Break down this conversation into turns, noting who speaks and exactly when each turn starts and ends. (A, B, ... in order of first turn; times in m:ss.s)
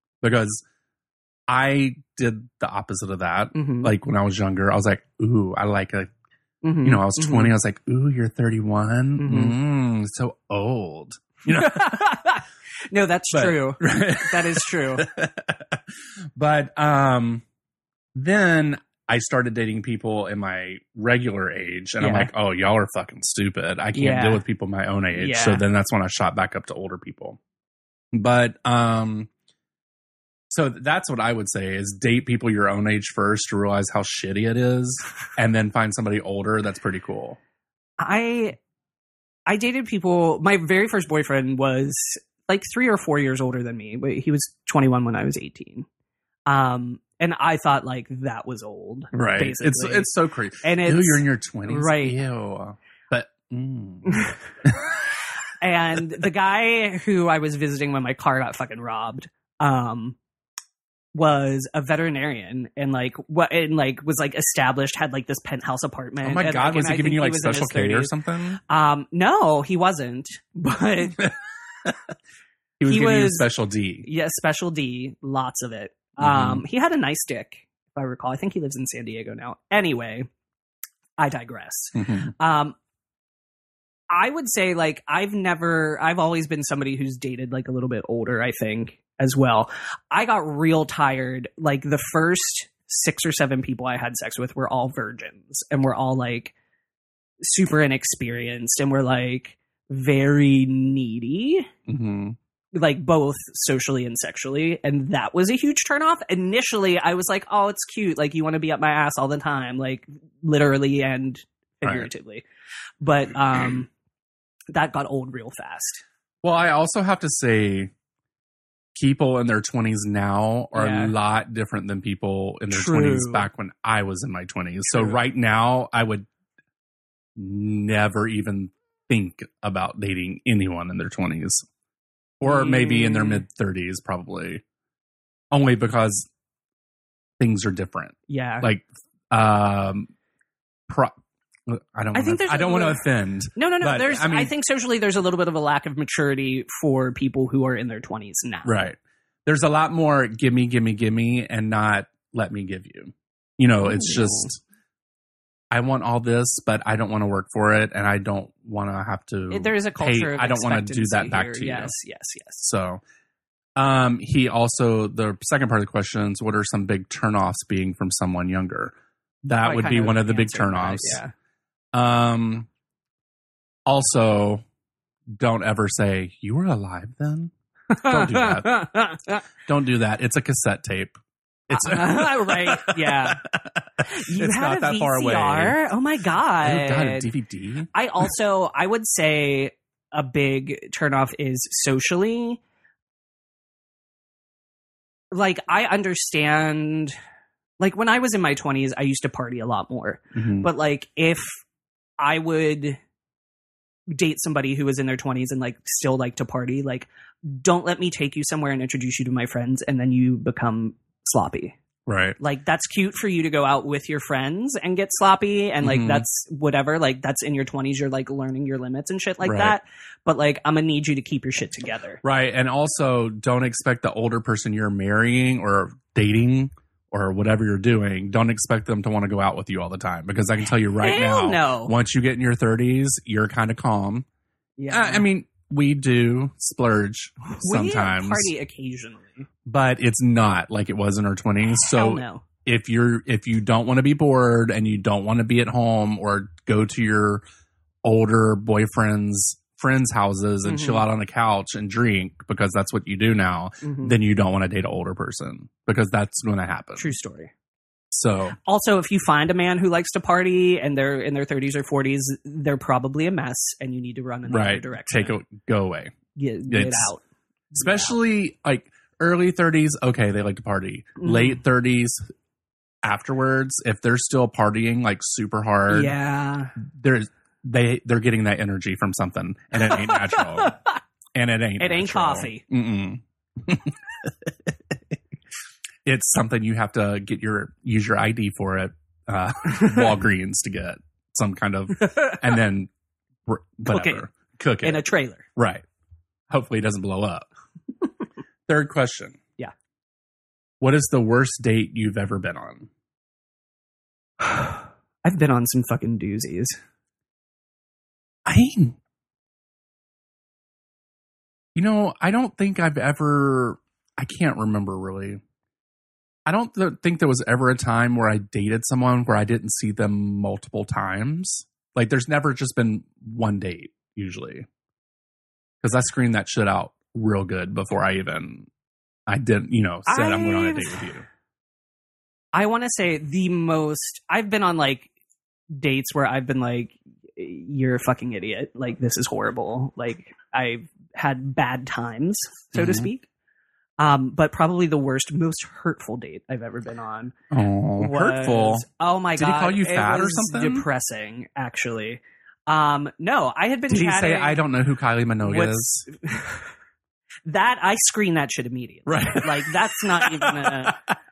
0:00.2-0:00.6 A
0:01.5-0:06.1 A
0:03.5-0:03.9 B
0:06.6-0:07.5 B
0:06.8-0:12.0 A
0:09.2-0:09.6 B
0:11.5-0:15.1 B
0:13.3-0:15.8 A
0:16.3-0:17.4 A
0:18.1-0:27.4 A
0:22.0-0:22.3 B
0:23.9-0:24.4 B
0:25.1-0:25.6 B
0:28.1-0:29.3 A
0:30.5-0:37.4 A
0:38.0-0:38.6 B
0:39.5-0:45.8 B
0:46.5-0:52.2 B
0:49.1-0:54.7 A
0:54.1-0:54.4 B
0:55.6-1:00.2 B
1:01.1-1:08.1 B
1:06.2-1:08.6 A
1:08.7-1:11.2 B
1:12.8-1:14.1 A
1:12.8-1:13.5 B
1:14.0-1:20.3 B
1:16.2-1:16.6 A
1:21.2-1:22.8 B
1:21.9-1:22.3 A
1:24.1-1:36.5 B
1:37.4-1:41.7 B
1:41.9-1:42.4 A
1:42.7-1:52.4 B
1:51.8-1:52.1 A
1:53.0-1:53.9 B
1:54.7-1:56.0 B
1:56.4-1:57.9 A
1:58.9-2:06.3 A
2:00.7-2:01.1 B
2:02.7-2:03.5 B
2:04.9-2:05.2 B
2:07.4-2:11.6 A
2:12.4-2:14.6 A
2:12.4-2:13.4 B
2:15.5-2:16.3 A
2:17.4-2:20.1 A
2:18.3-2:18.7 B
2:20.9-2:21.1 A
2:21.7-2:24.5 A
2:22.1-2:23.0 B
2:23.6-2:28.8 B
2:28.6-2:34.6 A
2:33.8-2:34.5 B
2:35.7-2:41.9 A
2:39.5-2:42.6 B
2:42.6-2:43.0 A
2:43.8-2:51.2 A
2:49.6-2:51.3 B
2:51.9-2:52.7 A
2:53.8-2:54.6 A
2:55.3-2:58.9 A
2:57.9-2:59.4 B
2:59.6-3:01.2 A
3:01.7-3:05.8 A
3:01.7-3:03.4 B
3:04.0-3:07.3 B
3:06.6-3:07.9 A
3:07.9-3:12.6 B
3:15.3-3:17.1 B
3:17.8-3:21.5 B
3:20.3-3:20.7 A
3:22.2-3:23.0 B
3:24.1-3:31.8 B
3:32.1-3:32.4 A
3:32.4-3:42.2 B
3:35.8-3:36.2 A
3:39.4-3:39.8 A
3:42.2-3:54.2 A
3:51.0-3:51.9 B
3:54.8-3:55.3 B
3:54.9-3:58.5 A
3:57.5-3:59.5 B
3:59.6-4:07.4 A
4:01.9-4:02.4 B
4:08.0-4:17.1 A
4:10.6-4:11.0 B
4:13.8-4:14.2 B
4:17.0-4:17.5 B
4:18.1-4:18.6 A
4:18.6-4:25.4 B
4:24.5-4:26.1 A
4:26.4-4:27.2 B
4:26.7-4:27.1 A
4:27.7-4:32.3 A
4:27.8-4:28.1 B
4:31.2-4:31.6 B
4:33.0-4:36.1 A
4:35.9-4:36.7 B
4:36.8-4:40.8 A
4:39.8-4:41.0 B
4:41.3-4:44.7 A
4:41.8-4:42.6 B
4:46.0-4:52.9 A
4:52.1-4:52.4 B
4:53.4-4:55.8 A
4:53.9-4:54.2 B
4:54.8-4:55.4 B
4:56.5-4:57.5 A
4:58.7-4:59.4 A
5:00.8-5:02.9 A
5:04.4-5:06.8 B
5:08.4-5:09.0 A
5:11.7-5:15.4 A
5:16.4-5:24.6 A
5:25.8-5:28.7 A
5:29.3-5:31.2 A
5:30.0-5:31.0 B
5:32.5-5:35.1 B
5:35.7-5:43.2 B
5:42.7-5:43.1 A
5:44.0-5:47.3 B
5:47.5-5:50.9 A
5:48.0-5:54.6 B
5:53.9-5:56.1 A
5:55.4-5:56.7 B
5:57.4-6:01.0 B
5:59.0-6:00.9 A